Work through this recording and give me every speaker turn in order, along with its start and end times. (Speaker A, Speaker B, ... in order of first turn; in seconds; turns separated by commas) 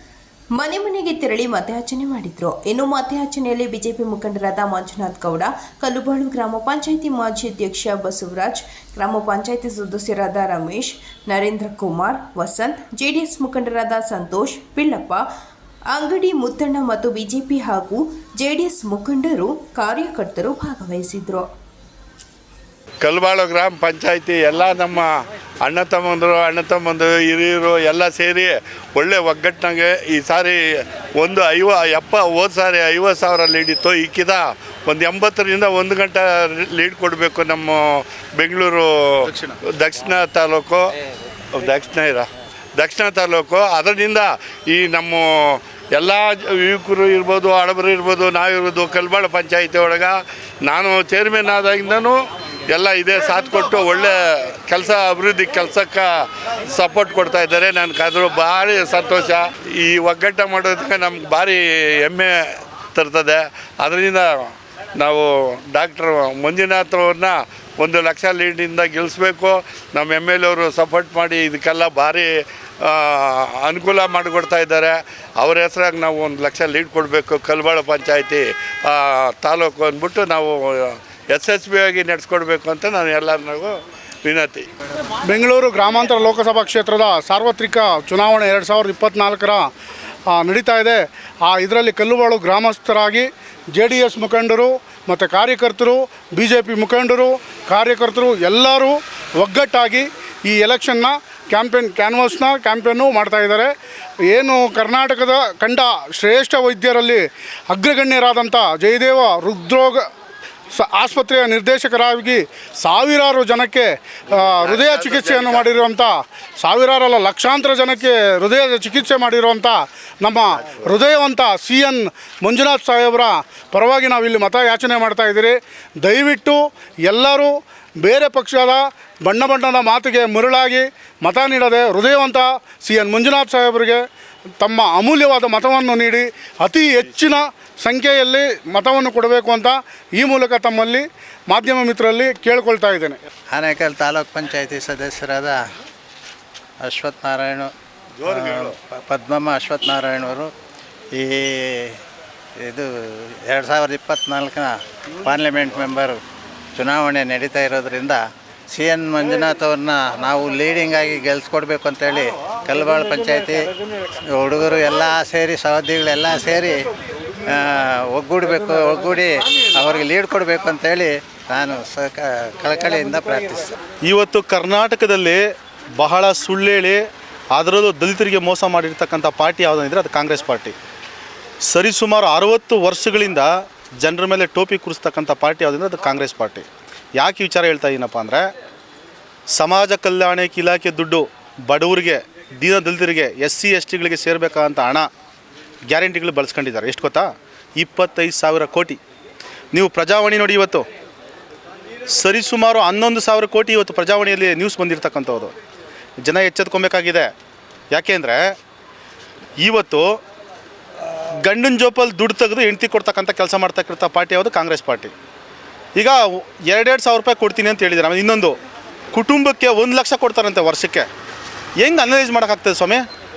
Speaker A: 0.6-15.3, Speaker A: 15.9-21.5, Speaker B: 23.0-25.1, Speaker B: 25.6-40.8, Speaker C: 39.3-39.6, Speaker B: 41.5-52.2, Speaker B: 52.7-56.1, Speaker B: 56.7-62.4, Speaker B: 62.9-72.3, Speaker B: 72.8-84.7, Speaker D: 85.3-89.7, Speaker D: 90.3-103.7, Speaker D: 104.3-110.0, Speaker D: 110.7-134.0, Speaker B: 114.3-115.7, Speaker D: 134.6-143.2, Speaker E: 143.5-145.6, Speaker E: 146.8-147.7, Speaker B: 148.2-148.8, Speaker E: 148.3-150.5, Speaker E: 151.1-152.0, Speaker E: 152.6-156.2, Speaker E: 156.8-163.7, Speaker E: 164.3-166.9, Speaker E: 167.5-173.8, Speaker C: 174.1-175.4, Speaker C: 176.0-180.8, Speaker C: 181.7-186.7, Speaker C: 187.2-188.5, Speaker C: 189.5-195.1, Speaker C: 195.9-197.3, Speaker C: 197.8-199.0, Speaker C: 199.7-200.8, Speaker C: 202.1-205.5, Speaker C: 206.2-207.3, Speaker C: 207.9-208.5, Speaker C: 209.6-210.2, Speaker C: 211.4-215.1, Speaker C: 216.0-218.6, Speaker C: 219.1-221.1, Speaker C: 221.8-223.1